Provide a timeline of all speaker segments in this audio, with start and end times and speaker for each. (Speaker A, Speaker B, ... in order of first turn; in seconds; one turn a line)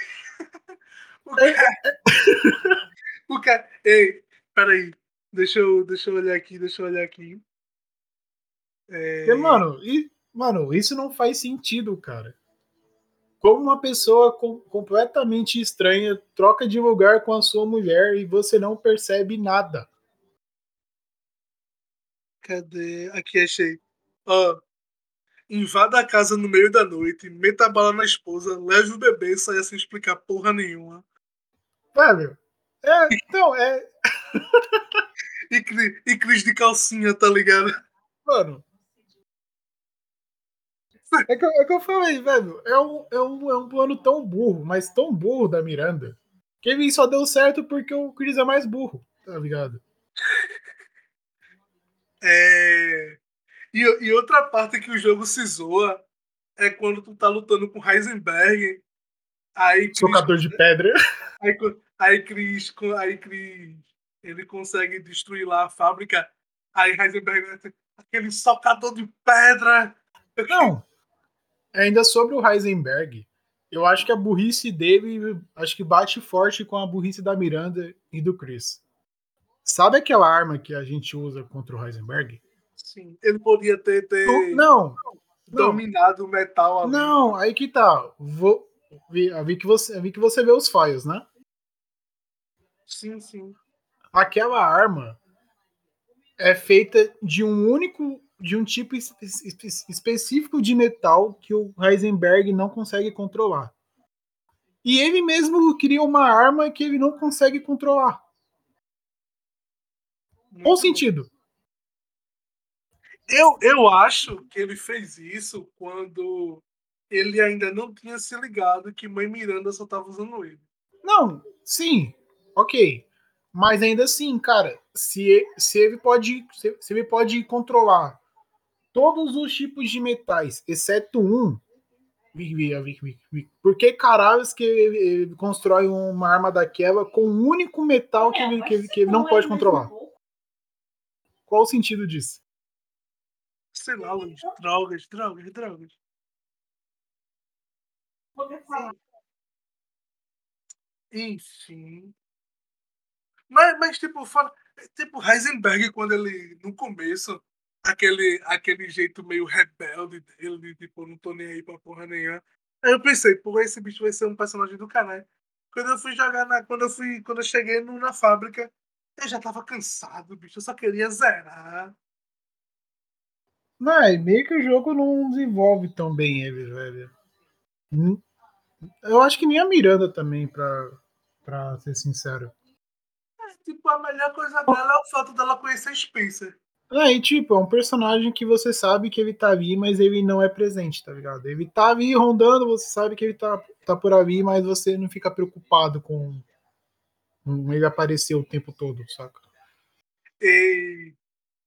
Speaker A: 1.2-1.7
Speaker B: 1.4-2.8
Speaker A: 3.3-7.4
Speaker A: 8.9-9.7
Speaker B: 9.2-12.3
Speaker B: 13.4-19.9
Speaker A: 22.4-24.6
Speaker A: 25.5-31.0
Speaker B: 31.9-35.0
Speaker A: 35.5-37.7
Speaker B: 38.2-38.6
Speaker B: 41.3-49.8
Speaker A: 52.2-53.2
Speaker A: 53.7-56.0
Speaker A: 56.6-58.8
Speaker A: 59.6-60.6
Speaker B: 60.0-61.0
Speaker A: 61.4-70.7
Speaker B: 70.5-70.8
Speaker B: 71.7-78.8
Speaker B: 79.6-82.4
Speaker A: 82.8-84.6
Speaker B: 84.2-85.0
Speaker A: 85.5-87.2
Speaker B: 85.5-85.8
Speaker B: 86.8-91.2
Speaker A: 92.9-93.6
Speaker B: 94.1-95.2
Speaker B: 96.4-103.7
Speaker B: 104.8-108.2
Speaker A: 110.5-111.0
Speaker B: 110.6-111.3
Speaker A: 113.3-120.6
Speaker B: 121.0-128.2
Speaker B: 128.9-131.6
Speaker B: 132.3-139.9
Speaker B: 141.5-142.4
Speaker A: 143.7-146.0
Speaker A: 151.1-152.1
Speaker A: 153.5-171.9
Speaker B: 173.8-177.1
Speaker B: 177.9-178.2
Speaker B: 179.0-182.5
Speaker A: 183.4-186.5
Speaker B: 186.9-196.4
Speaker B: 197.4-199.4
Speaker A: 200.4-201.2